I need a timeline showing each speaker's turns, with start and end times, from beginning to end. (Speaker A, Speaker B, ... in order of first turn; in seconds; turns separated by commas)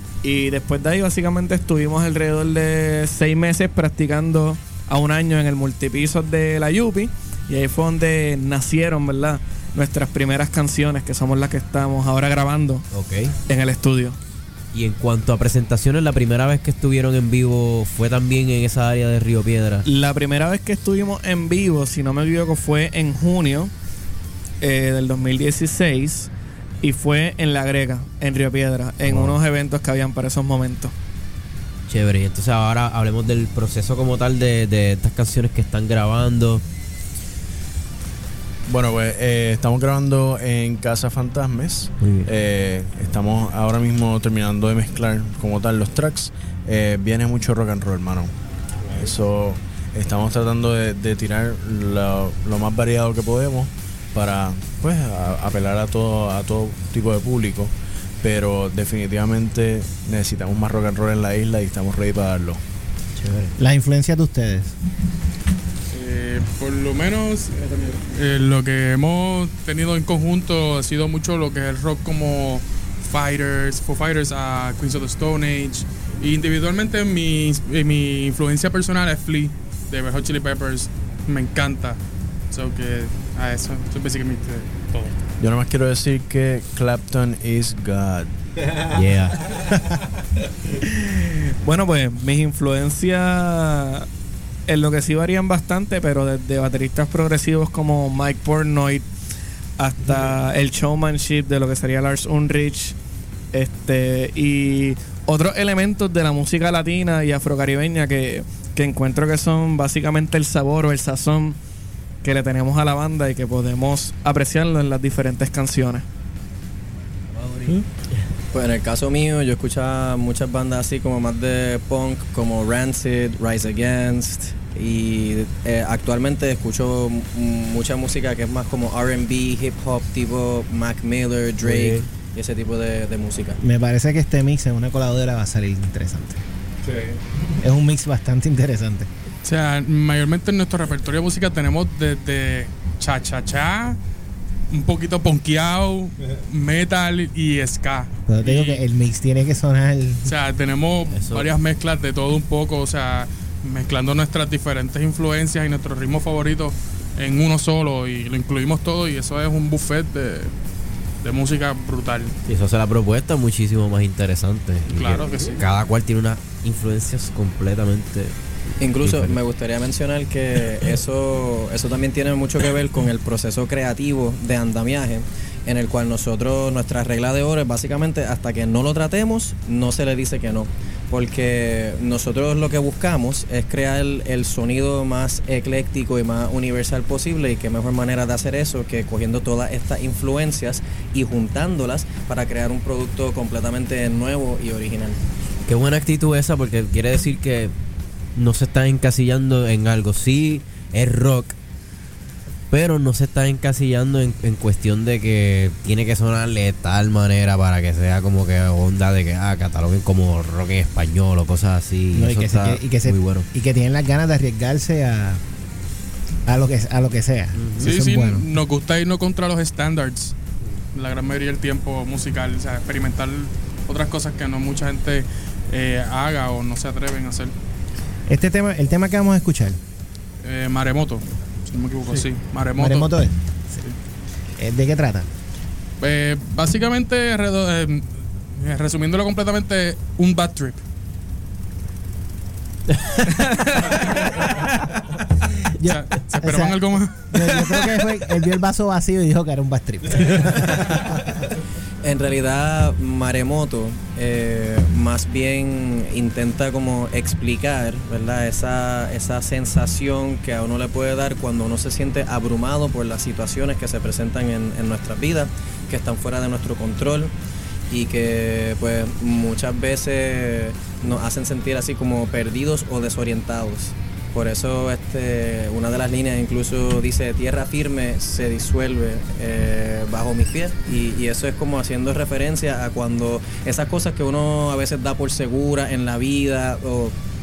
Speaker A: 0.2-12.8, Speaker B: 12.9-13.3, Speaker A: 13.5-14.2, Speaker B: 14.7-19.8, Speaker A: 19.9-23.7, Speaker A: 24.6-26.3, Speaker A: 26.8-30.9, Speaker B: 29.1-29.4, Speaker B: 31.9-36.6, Speaker C: 38.7-48.3, Speaker B: 42.0-42.3, Speaker C: 49.0-62.6, Speaker B: 63.2-63.5, Speaker D: 63.6-64.7, Speaker E: 65.9-82.0, Speaker E: 82.5-85.0, Speaker C: 85.4-88.3, Speaker B: 88.9-89.4, Speaker A: 91.6-94.1, Speaker A: 94.7-99.1, Speaker A: 99.8-103.0, Speaker A: 103.5-111.6, Speaker A: 112.2-116.1, Speaker F: 118.5-133.6, Speaker B: 131.6-132.0, Speaker D: 133.6-136.4, Speaker D: 137.6-139.1, Speaker E: 139.4-144.0, Speaker E: 144.7-148.8, Speaker D: 148.3-150.3, Speaker E: 150.2-160.5, Speaker B: 151.1-151.5, Speaker E: 161.2-162.4, Speaker B: 162.5-168.3, Speaker E: 164.9-165.7, Speaker F: 168.8-195.2, Speaker B: 169.0-169.4, Speaker B: 195.7-197.7, Speaker B: 198.4-201.6, Speaker B: 202.7-213.5, Speaker D: 212.1-215.4, Speaker D: 216.5-218.4, Speaker B: 217.6-217.9, Speaker E: 217.8-220.3, Speaker E: 220.9-227.5, Speaker D: 228.3-229.8, Speaker E: 230.4-233.1, Speaker D: 232.8-233.8, Speaker D: 234.6-235.3, Speaker E: 236.0-240.8, Speaker D: 245.8-250.6, Speaker E: 245.8-248.1, Speaker F: 252.0-267.3, Speaker F: 267.9-287.1